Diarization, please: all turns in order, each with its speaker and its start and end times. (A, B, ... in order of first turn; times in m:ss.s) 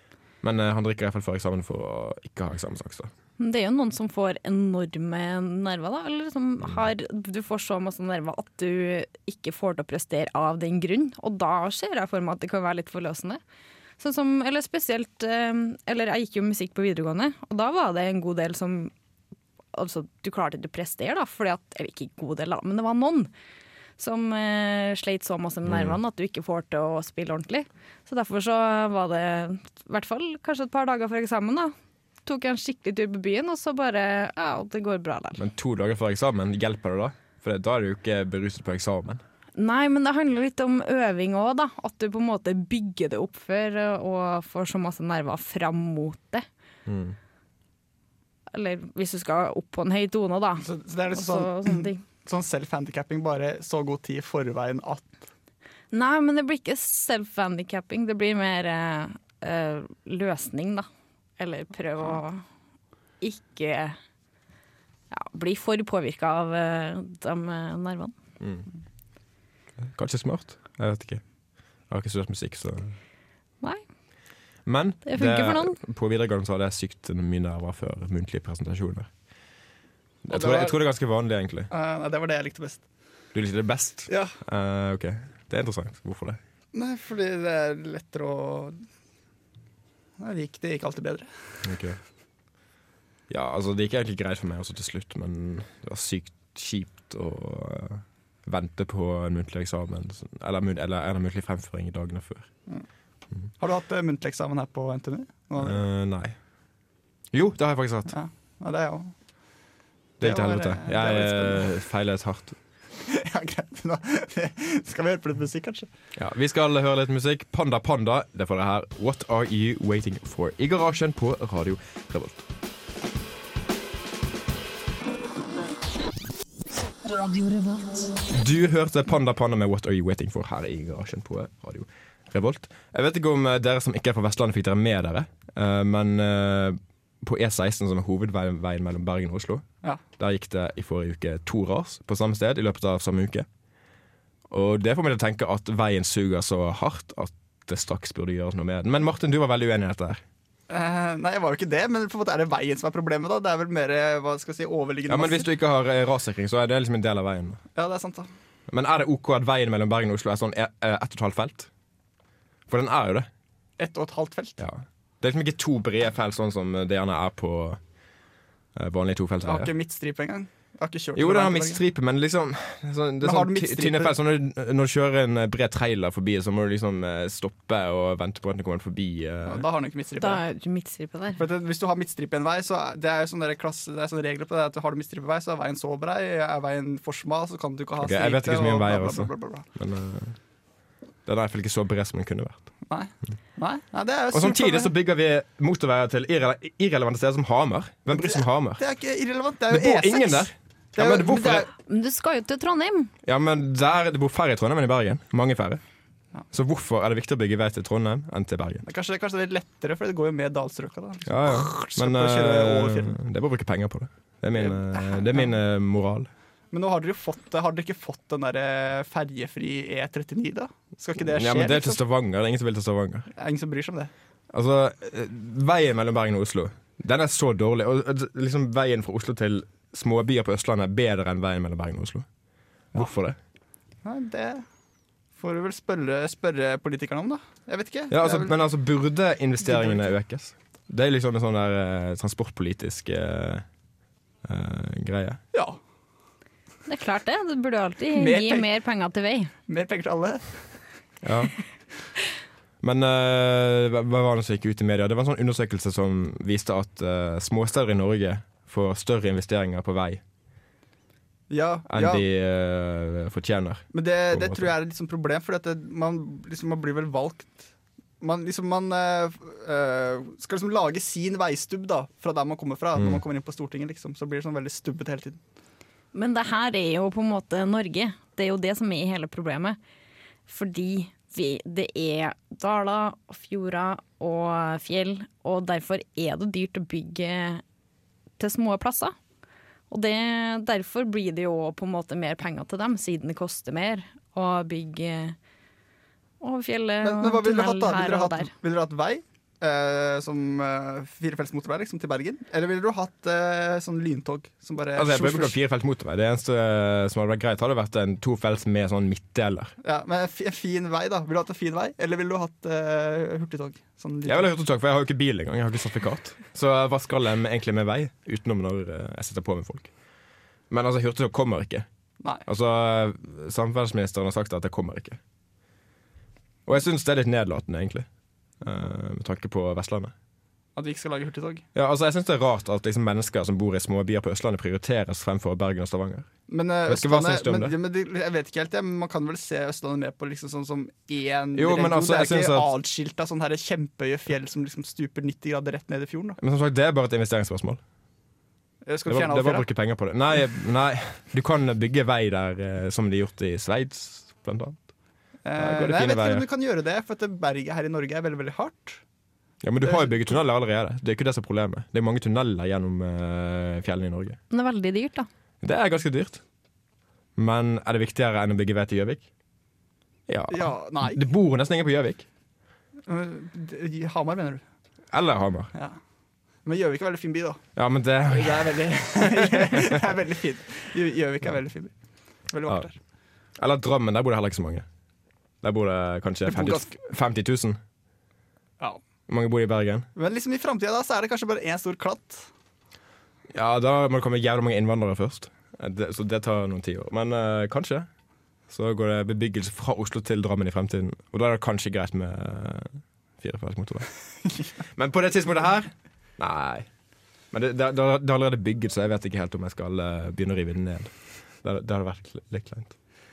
0:00.4-0:03.1 A
0:03.4-0:13.4 B
0:14.0-0:18.9 B
0:19.7-0:23.3 B
0:24.0-0:31.7 B
0:25.6-0:26.0 A
0:32.3-0:35.4 B
0:35.4-0:39.2 A
0:39.6-0:46.4 B
0:46.9-0:47.2 A
0:48.5-0:52.0 B
0:50.6-0:55.3 C
0:55.9-1:00.9 B
1:01.4-1:02.4 B
1:03.2-1:04.0 B
1:05.1-1:08.1 B
1:08.4-1:08.6 A
1:09.8-1:11.2 A
1:11.9-1:13.0 A
1:14.7-1:19.1 A
1:15.1-1:15.8 B
1:20.2-1:21.7 A
1:20.3-1:20.8 C
1:21.7-1:22.8 C
1:23.3-1:26.4 A
1:24.1-1:24.4 C
1:26.7-1:28.8 C
1:30.2-1:31.6 C
1:31.6-1:32.0 A
1:33.3-1:42.5 A
1:43.6-1:45.8 C
1:45.6-1:46.4 A
1:47.3-1:48.2 A
1:48.1-1:49.1 C
1:50.2-1:51.8 C
1:50.2-1:52.6 A
1:53.1-1:55.9 C
1:56.2-2:02.4 A
2:08.3-2:19.7 A
2:20.2-2:23.5 A
2:24.5-2:30.2 A
2:30.7-2:35.5 C
2:35.1-2:37.6 A
2:37.8-2:38.3 C
2:38.7-2:41.7 A
2:42.7-2:43.3 A
2:43.8-2:44.6 C
2:44.6-2:47.8 A
2:48.8-2:49.7 A
2:49.4-2:51.8 C
2:51.2-2:59.6 A
2:53.2-2:54.2 C
2:59.4-3:00.4 C
3:00.2-3:01.4 B
3:01.4-3:09.6 C
3:08.0-3:10.4 A
3:11.3-3:12.6 A
3:12.9-3:14.9 C
3:14.3-3:18.8 A
3:18.1-3:21.7 C
3:19.7-3:21.7 A
3:21.8-3:23.1 B
3:23.2-3:25.8 A
3:26.5-3:28.8 A
3:28.8-3:33.2 C
3:31.3-3:36.3 A
3:34.5-3:35.6 C
3:36.7-3:42.0 C
3:41.3-3:43.3 A
3:43.4-3:44.1 C
3:44.5-3:52.3 A
3:52.9-3:53.4 A
3:54.0-3:54.6 C
3:55.4-3:58.6 C
3:58.1-4:03.7 A
3:59.6-4:00.1 C
4:04.4-4:05.4 A
4:05.5-4:05.8 C
4:06.9-4:09.5 B
4:08.2-4:08.7 C
4:09.7-4:10.7 C
4:11.2-4:11.5 A
4:12.8-4:20.2 A
4:21.5-4:22.2 C
4:21.9-4:24.7 A
4:23.9-4:27.7 C
4:28.2-4:35.4 C
4:33.0-4:33.2 A
4:36.1-4:39.8 B
4:40.5-4:47.6 B
4:48.4-4:49.2 B
4:49.9-4:55.4 B
4:56.4-4:58.5 B
4:57.0-5:05.6 C
5:05.0-5:09.8 A
5:09.8-5:14.5 C
5:14.2-5:19.9 A
5:20.7-5:21.9 A
5:22.5-5:25.2 A
5:26.7-5:28.1 A
5:28.6-5:30.1 A
5:30.8-5:31.6 C
5:31.8-5:36.3 A
5:36.5-5:46.4 C
5:36.9-5:37.8 A
5:41.6-5:42.7 A
5:46.4-5:47.8 A
5:48.8-5:49.7 C
5:49.1-5:54.9 A
5:55.4-5:59.0 C
5:55.6-5:56.4 A
5:59.6-6:04.4 A
5:59.8-6:00.2 C
6:04.5-6:05.3 B
6:05.6-6:06.4 A
6:07.4-6:09.3 A
6:10.3-6:12.2 A
6:10.5-6:11.2 C
6:13.1-6:14.6 C
6:15.1-6:15.7 A
6:16.6-6:17.7 C
6:17.8-6:20.1 A
6:18.3-6:21.9 C
6:22.5-6:23.0 C
6:23.6-6:24.9 A
6:25.6-6:27.8 A
6:26.5-6:27.0 C
6:29.3-6:30.1 A
6:30.2-6:32.5 C
6:33.5-6:38.1 A
6:38.7-6:44.1 A
6:44.9-6:46.9 A
6:47.5-6:53.0 A